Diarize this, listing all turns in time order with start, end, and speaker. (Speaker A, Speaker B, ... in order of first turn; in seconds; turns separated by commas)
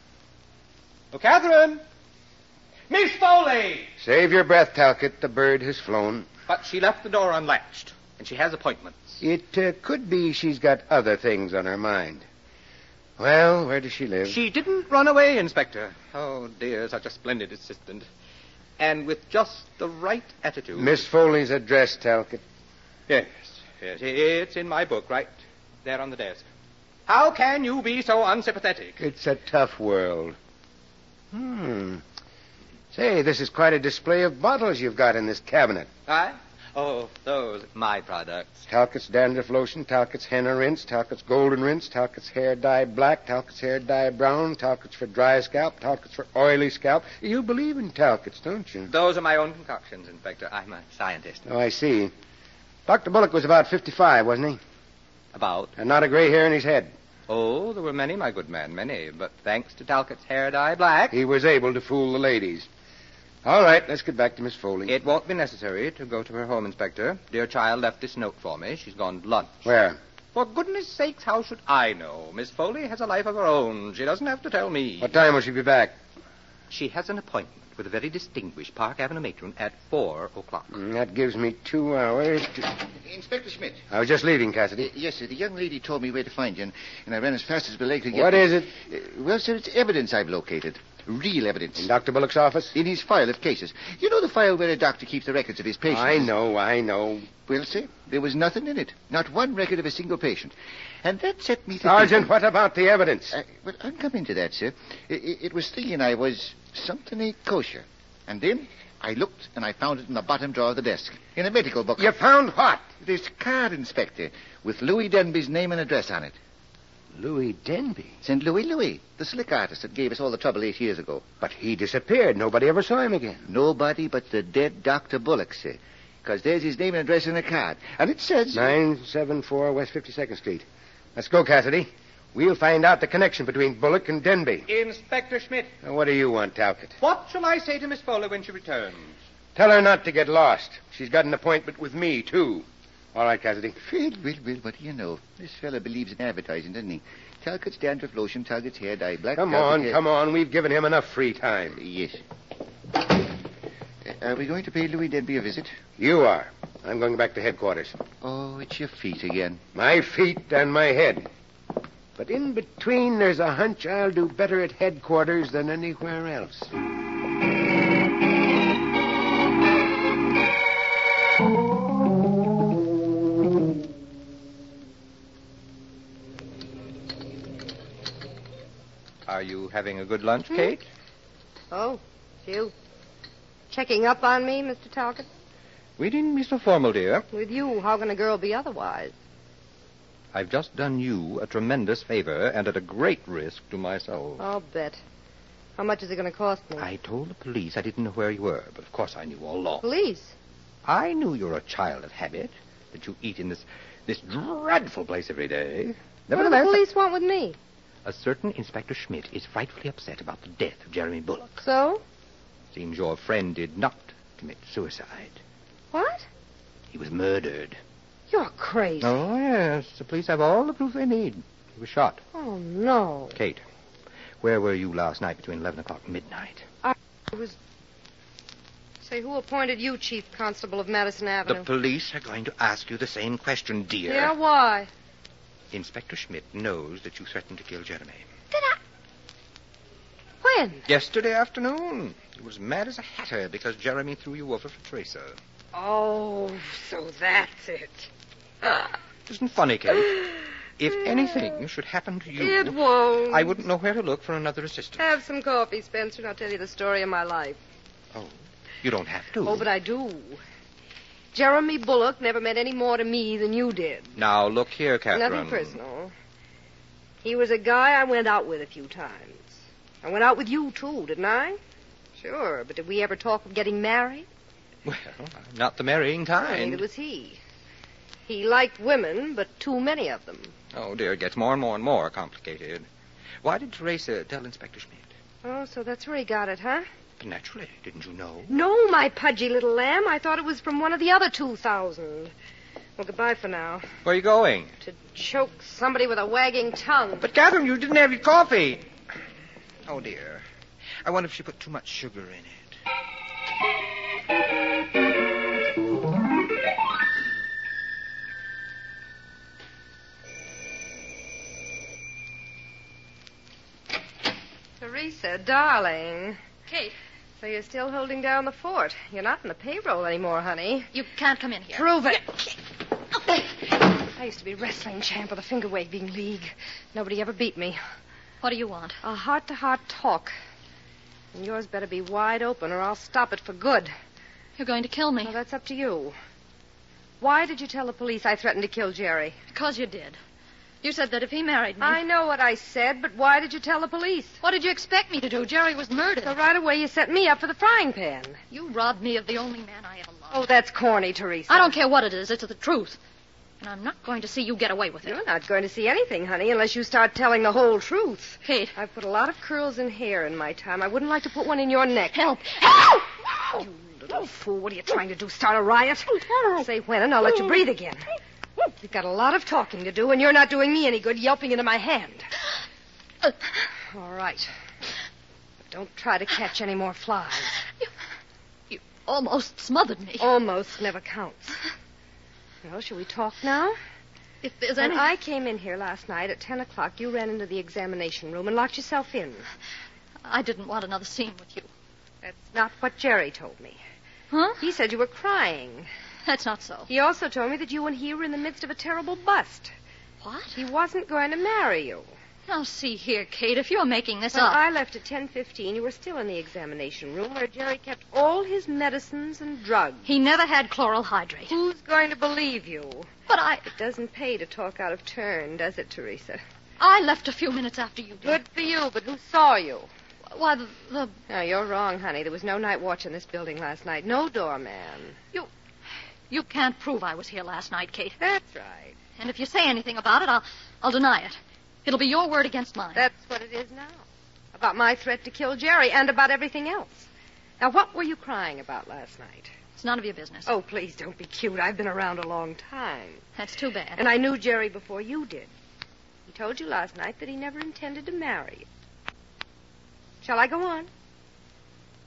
Speaker A: 1.1-1.8, Speaker A: 2.9-3.9, Speaker B: 4.0-6.3, Speaker A: 6.5-9.2, Speaker B: 9.2-12.2, Speaker B: 13.2-14.4, Speaker A: 14.3-18.1, Speaker A: 18.8-21.0, Speaker B: 20.8-22.4, Speaker A: 23.1-25.3, Speaker A: 25.9-26.5, Speaker A: 27.1-29.0, Speaker B: 29.0-30.4, Speaker B: 31.3-32.0, Speaker B: 32.9-35.9, Speaker A: 36.1-38.6, Speaker B: 38.7-48.9, Speaker A: 48.9-51.5, Speaker B: 51.5-52.1, Speaker B: 52.9-54.6, Speaker A: 55.3-55.7, Speaker B: 55.8-56.9, Speaker A: 57.3-61.2, Speaker B: 61.1-62.7, Speaker B: 63.4-65.0, Speaker A: 64.9-69.7, Speaker B: 69.7-70.0, Speaker A: 70.3-75.2, Speaker B: 75.0-76.0, Speaker A: 76.7-80.8, Speaker B: 80.7-82.7, Speaker C: 83.0-83.9, Speaker B: 83.9-84.9, Speaker C: 84.9-91.9, Speaker B: 88.1-88.7, Speaker B: 91.8-92.8, Speaker C: 92.7-96.3, Speaker B: 95.9-97.3, Speaker C: 97.5-102.3, Speaker B: 101.8-103.3, Speaker C: 103.3-112.2, Speaker B: 112.0-112.8, Speaker C: 113.0-116.4, Speaker B: 117.2-118.2, Speaker C: 118.2-121.2, Speaker B: 121.4-123.5, Speaker C: 123.5-128.8, Speaker B: 128.5-134.7, Speaker A: 134.7-135.7, Speaker B: 135.8-137.0, Speaker A: 137.0-139.2, Speaker B: 139.6-143.8, Speaker C: 143.8-150.0, Speaker B: 149.4-151.8, Speaker C: 151.8-152.2, Speaker C: 154.0-155.8, Speaker B: 156.0-158.0, Speaker C: 158.2-159.6, Speaker B: 159.8-161.3, Speaker B: 162.2-166.7, Speaker A: 179.3-180.9, Speaker D: 181.7-182.7, Speaker D: 183.7-185.3, Speaker A: 186.0-187.3, Speaker D: 187.3-189.2, Speaker A: 190.3-194.4, Speaker D: 194.4-195.0, Speaker D: 195.8-196.9, Speaker A: 196.8-199.8, Speaker D: 199.8-200.3, Speaker A: 200.9-206.8, Speaker D: 206.3-207.6, Speaker A: 208.1-211.6, Speaker D: 211.6-212.0, Speaker A: 212.7-215.4, Speaker D: 215.9-216.3, Speaker A: 216.9-217.8, Speaker D: 218.3-219.2, Speaker A: 219.0-222.2, Speaker D: 222.3-223.4, Speaker A: 223.4-223.6, Speaker A: 224.4-226.7, Speaker D: 226.8-227.6, Speaker D: 229.0-231.7, Speaker A: 231.5-234.3, Speaker D: 234.1-234.9, Speaker A: 235.7-238.3, Speaker D: 238.5-238.8, Speaker D: 240.4-240.8, Speaker A: 240.9-245.4, Speaker D: 245.7-248.1, Speaker D: 248.6-248.9, Speaker A: 249.3-255.0, Speaker D: 252.4-253.6, Speaker D: 255.0-257.6, Speaker A: 258.1-259.7, Speaker D: 259.4-260.4, Speaker D: 261.3-264.2, Speaker A: 264.2-265.8, Speaker D: 265.1-266.1, Speaker D: 267.2-271.6, Speaker D: 272.2-274.3, Speaker A: 274.9-276.8, Speaker D: 276.4-277.4, Speaker D: 278.3-280.5, Speaker A: 280.7-282.9, Speaker A: 283.4-285.1, Speaker D: 285.4-286.9, Speaker A: 287.2-288.5, Speaker D: 288.5-292.3, Speaker D: 293.0-293.9, Speaker A: 294.1-294.7, Speaker D: 294.8-297.3, Speaker A: 297.2-298.9, Speaker A: 299.9-300.4, Speaker A: 301.0-302.8, Speaker D: 314.8-316.4, Speaker E: 316.7-316.9, Speaker D: 317.4-320.9, Speaker E: 320.9-321.9, Speaker D: 321.7-322.6, Speaker D: 323.2-327.8, Speaker E: 328.4-329.0, Speaker D: 329.0-330.3, Speaker D: 331.3-333.9, Speaker E: 334.6-335.4, Speaker D: 335.2-336.2, Speaker D: 337.2-339.4, Speaker E: 339.5-340.2, Speaker E: 340.8-342.0, Speaker D: 341.8-344.4, Speaker E: 344.4-346.4, Speaker D: 346.2-348.4, Speaker E: 348.5-350.4, Speaker D: 350.3-351.8, Speaker E: 351.5-353.0, Speaker E: 353.6-355.2, Speaker D: 355.1-368.1, Speaker E: 358.4-358.8, Speaker E: 362.1-363.0, Speaker E: 366.3-366.6, Speaker D: 368.8-372.3, Speaker D: 373.9-374.5, Speaker D: 375.7-377.6, Speaker E: 378.7-380.3, Speaker D: 380.2-381.6, Speaker D: 382.6-383.8, Speaker E: 384.4-385.1, Speaker D: 384.8-389.5, Speaker E: 390.3-391.7, Speaker D: 392.2-393.8, Speaker E: 394.3-394.6, Speaker D: 394.6-395.9, Speaker E: 396.3-396.9, Speaker D: 396.9-399.7, Speaker E: 400.2-400.6, Speaker D: 400.6-402.1, Speaker E: 402.5-404.6, Speaker D: 404.3-410.1, Speaker E: 410.1-411.6, Speaker D: 411.5-413.1, Speaker E: 413.3-413.7, Speaker D: 413.6-416.4, Speaker E: 416.8-418.4, Speaker D: 418.2-419.9, Speaker E: 420.3-421.2, Speaker D: 421.3-425.2, Speaker E: 426.3-428.2, Speaker D: 428.2-429.0, Speaker E: 429.2-433.1, Speaker D: 432.9-434.0, Speaker D: 434.6-437.1, Speaker D: 437.6-439.5, Speaker E: 439.8-440.5, Speaker D: 440.5-443.2, Speaker E: 443.4-444.1, Speaker D: 444.0-445.5, Speaker D: 446.3-448.7, Speaker D: 450.2-450.9